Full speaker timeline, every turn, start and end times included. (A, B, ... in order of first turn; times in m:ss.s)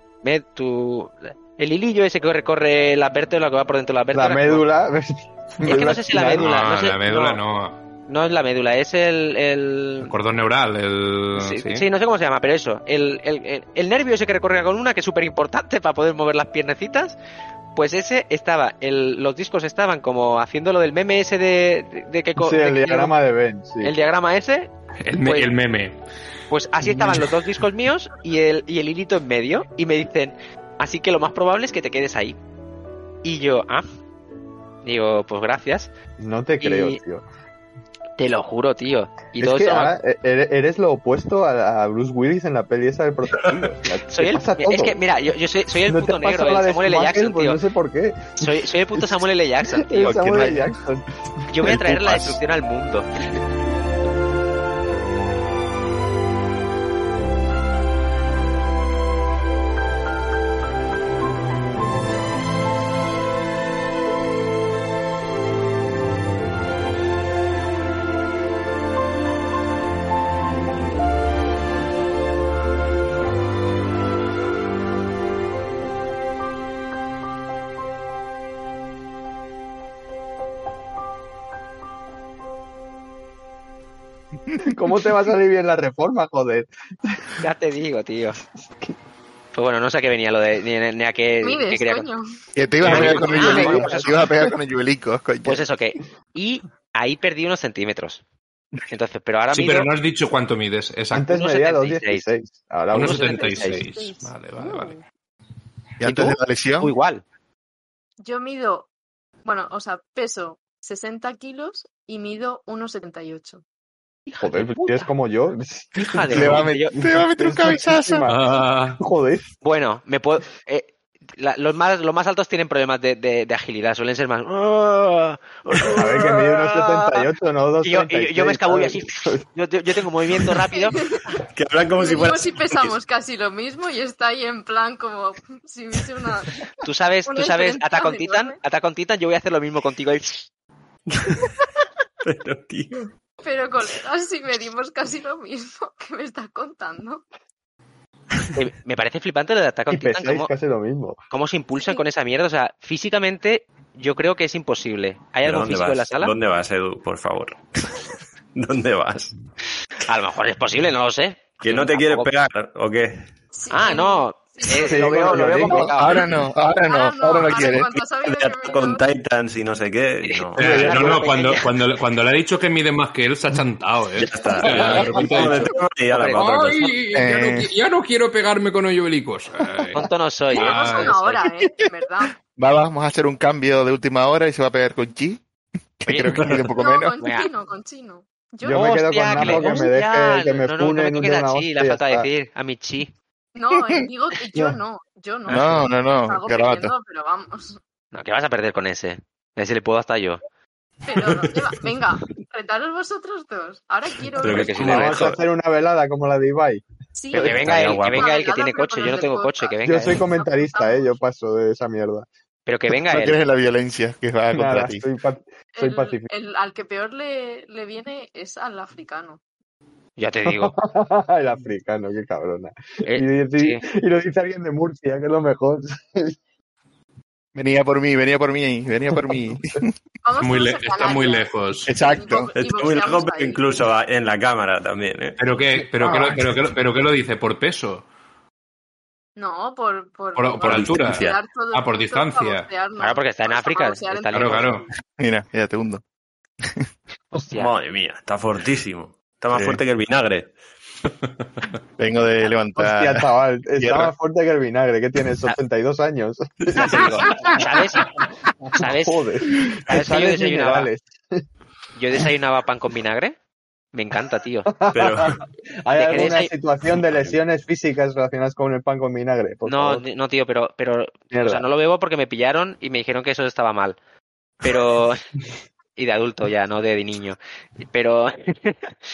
0:00.2-0:04.6 A
0:04.1-0:06.5 B
0:05.6-0:07.4 A
0:06.4-0:07.8 C
0:08.1-0:10.1 A
0:10.1-0:11.8 C
0:11.4-0:17.2 A
0:17.7-0:23.1 A
0:22.4-0:23.9 B
0:23.8-0:25.5 A
0:25.0-0:26.0 C
0:26.5-0:32.4 A
0:33.2-0:33.8 A
0:34.8-0:35.9 A
0:36.2-0:37.2 B
0:36.6-0:37.0 A
0:38.2-0:40.0 A
0:39.4-0:45.0 B
0:44.1-0:47.6 A
0:45.9-0:48.4 B
0:48.4-0:50.6 A
0:49.8-0:51.0 B
0:51.5-0:53.1 A
0:51.7-0:52.2 D
1:24.6-1:27.2 B
1:27.4-1:28.4 A
1:29.5-1:32.1 A
1:31.4-1:32.4 E
1:32.6-1:35.6 D
1:32.8-1:34.2 A
1:32.9-1:34.5 B
1:35.4-1:38.2 A
1:38.9-1:39.9 A
1:39.5-1:41.3 C
1:41.1-1:43.4 B
1:41.3-1:42.3 A
1:42.9-1:44.9 C
1:43.0-1:43.8 A
1:43.2-1:45.0 E
1:46.0-1:46.9 D
1:46.0-1:47.2 A
1:48.2-1:48.9 E
1:49.4-1:53.6 E
1:54.3-1:55.1 A
1:54.4-1:56.6 B
1:56.0-1:57.0 A
1:56.3-1:58.3 D
1:57.4-1:58.4 B
1:58.3-1:59.0 C
1:59.0-1:59.5 B
1:59.6-2:07.2 A
2:06.0-2:09.4 B
2:07.8-2:11.0 A
2:10.7-2:11.4 E
2:11.5-2:12.9 F
2:11.9-2:16.6 E
2:16.8-2:20.5 A
2:17.2-2:18.6 E
2:21.1-2:21.5 F
2:22.2-2:23.1 F
2:23.4-2:27.2 E
2:28.5-2:30.5 A
2:29.9-2:31.2 B
2:31.3-2:36.3 A
2:35.4-2:38.0 F
2:38.5-2:39.3 F
2:40.0-2:42.3 A
2:41.6-2:43.3 F
2:43.5-2:45.1 E
2:43.7-2:46.2 A
2:44.9-2:45.9 B
2:45.1-2:47.8 D
2:46.9-2:49.0 E
2:47.6-2:51.2 F
2:50.2-2:51.7 A
2:50.6-3:00.0 C
2:54.2-2:57.0 F
2:54.6-2:55.6 A
2:57.1-2:57.7 D
2:59.9-3:01.4 A
3:00.5-3:01.2 C
3:00.5-3:02.4 E
3:02.4-3:05.4 D
3:06.0-3:07.1 D
3:06.0-3:06.3 A
3:06.3-3:06.7 F
3:06.8-3:09.9 E
3:07.2-3:07.5 A
3:08.6-3:12.3 B
3:08.6-3:13.1 A
3:13.5-3:17.8 E
3:15.5-3:15.9 A
3:15.5-3:16.9 D
3:18.1-3:20.4 A
3:21.0-3:25.2 E
3:24.4-3:25.4 F
3:24.4-3:25.3 A
3:24.8-3:26.8 B
3:27.2-3:31.1 E
3:27.3-3:30.2 A
3:27.4-3:28.3 F
3:29.8-3:32.2 B
3:32.6-3:33.4 A
3:33.0-3:35.0 D
3:34.5-3:36.3 B
3:35.7-3:39.4 E
3:40.2-3:40.8 A
3:40.4-3:46.4 B
3:43.0-3:43.8 A
3:47.5-3:49.9 D
3:50.2-3:53.7 E
3:50.4-3:51.9 C
3:51.9-3:52.5 D
3:52.5-3:55.4 F
3:55.4-3:58.0 C
3:56.0-3:56.4 B
3:59.4-4:04.9 E
4:00.4-4:02.7 C
4:00.6-4:01.4 F
4:03.0-4:04.7 A
4:04.3-4:04.8 C
4:05.2-4:06.0 D
4:07.3-4:07.7 A
4:07.6-4:10.5 F
4:09.5-4:09.8 D
4:12.0-4:13.2 D
4:12.8-4:17.4 B
4:13.8-4:14.1 D
4:16.8-4:18.1 A
4:18.7-4:19.2 A
4:18.8-4:21.4 B
4:19.9-4:20.9 A
4:22.0-4:23.4 A
4:23.9-4:24.7 A
4:24.7-4:30.0 B
4:24.9-4:25.4 F
4:26.0-4:26.5 A
4:27.0-4:27.3 F
4:29.6-4:34.0 A
4:31.3-4:31.6 B
4:34.6-4:35.2 A
4:36.0-4:37.4 A
4:37.9-4:38.9 A